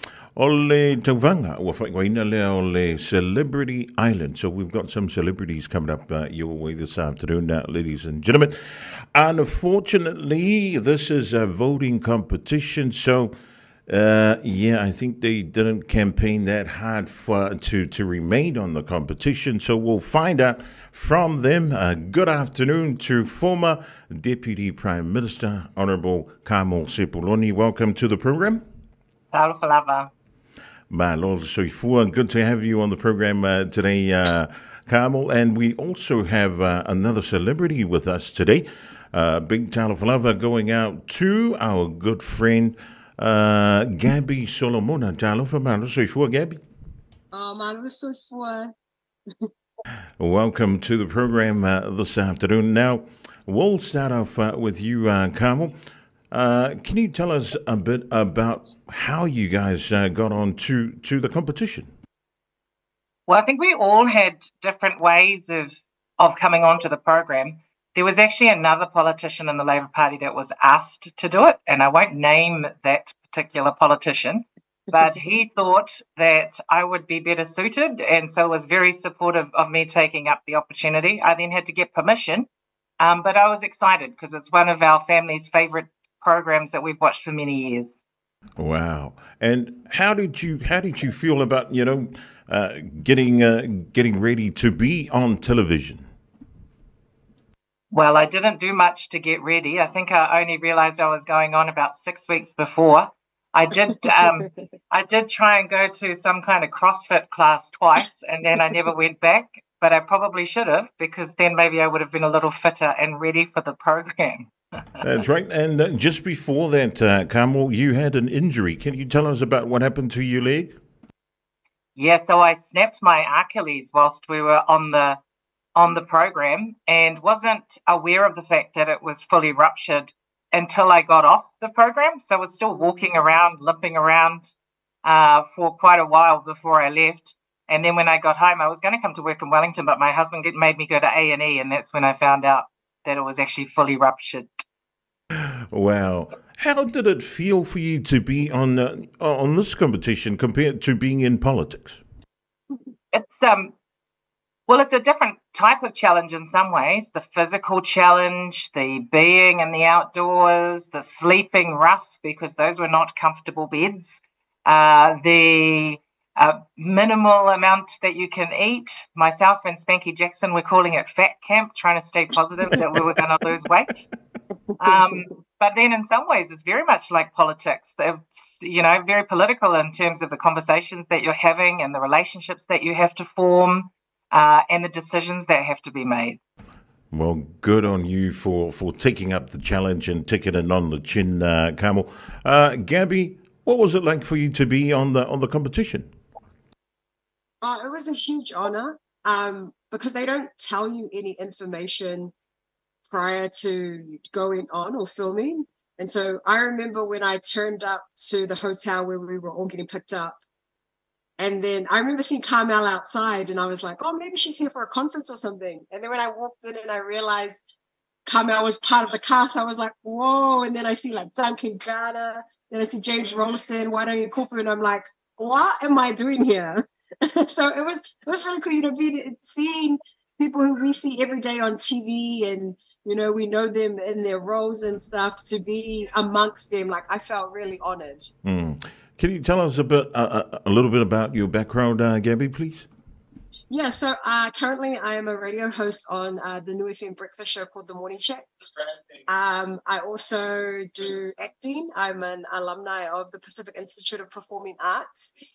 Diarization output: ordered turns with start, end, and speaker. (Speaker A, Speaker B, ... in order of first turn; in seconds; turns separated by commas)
Speaker A: 0.3-8.6, Speaker A: 9.1-13.3, Speaker A: 13.9-28.6, Speaker B: 29.3-30.1, Speaker A: 30.9-46.6, Speaker C: 47.3-48.7, Speaker A: 50.2-55.7, Speaker A: 56.3-61.9, Speaker B: 63.3-82.5, Speaker B: 83.0-88.0, Speaker A: 88.6-96.0, Speaker B: 97.9-115.0, Speaker A: 115.0-120.8, Speaker B: 122.0-125.2, Speaker B: 125.8-134.5, Speaker B: 135.0-144.6, Speaker A: 145.4-152.0, Speaker B: 153.1-153.7, Speaker B: 154.7-174.0, Speaker B: 174.8-186.4, Speaker A: 187.1-196.1, Speaker C: 197.6-202.3, Speaker C: 203.1-210.4, Speaker C: 211.4-217.6, Speaker C: 218.2-238.3, Speaker A: 238.4-242.9, Speaker C: 243.7-248.5, Speaker C: 249.3-255.3